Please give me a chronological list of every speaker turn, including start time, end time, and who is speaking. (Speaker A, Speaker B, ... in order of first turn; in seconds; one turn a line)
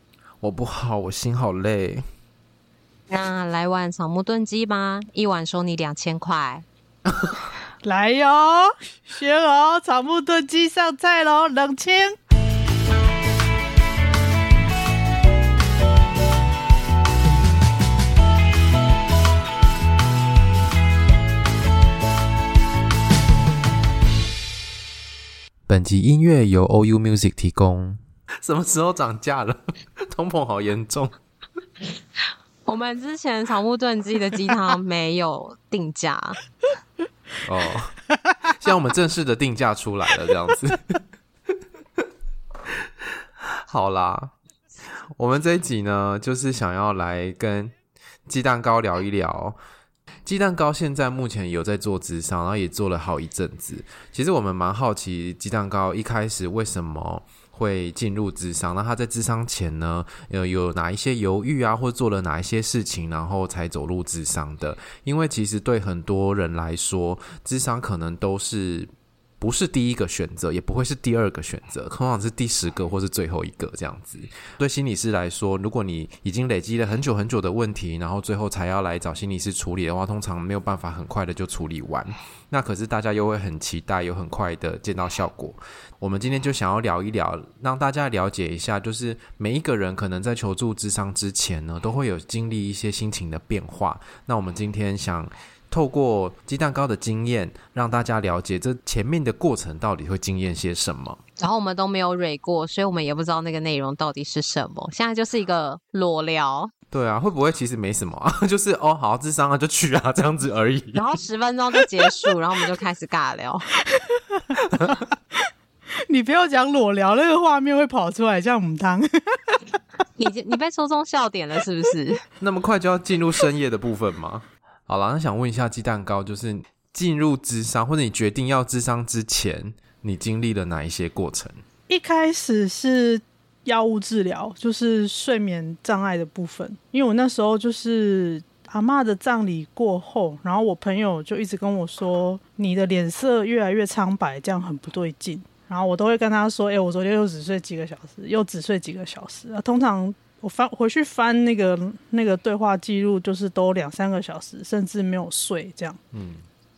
Speaker A: 0.4-2.0
Speaker B: 3.1-6.7
Speaker C: 7.8-12.1
Speaker A: 25.7-31.1
Speaker B: 32.7-36.4
Speaker A: 37.4-38.0
Speaker A: 38.6-41.0
Speaker A: 43.4-44.3
Speaker A: 44.9-47.8
Speaker A: 48.3-49.6
Speaker A: 50.2-101.2
Speaker B: 101.4-106.7
Speaker A: 106.9-111.2
Speaker B: 111.0-113.7
Speaker C: 113.8-114.6
Speaker A: 114.7-115.0
Speaker C: 116.1-119.7
Speaker B: 120.2-122.2
Speaker A: 122.4-131.6
Speaker C: 131.9-156.0
Speaker A: 156.1-156.5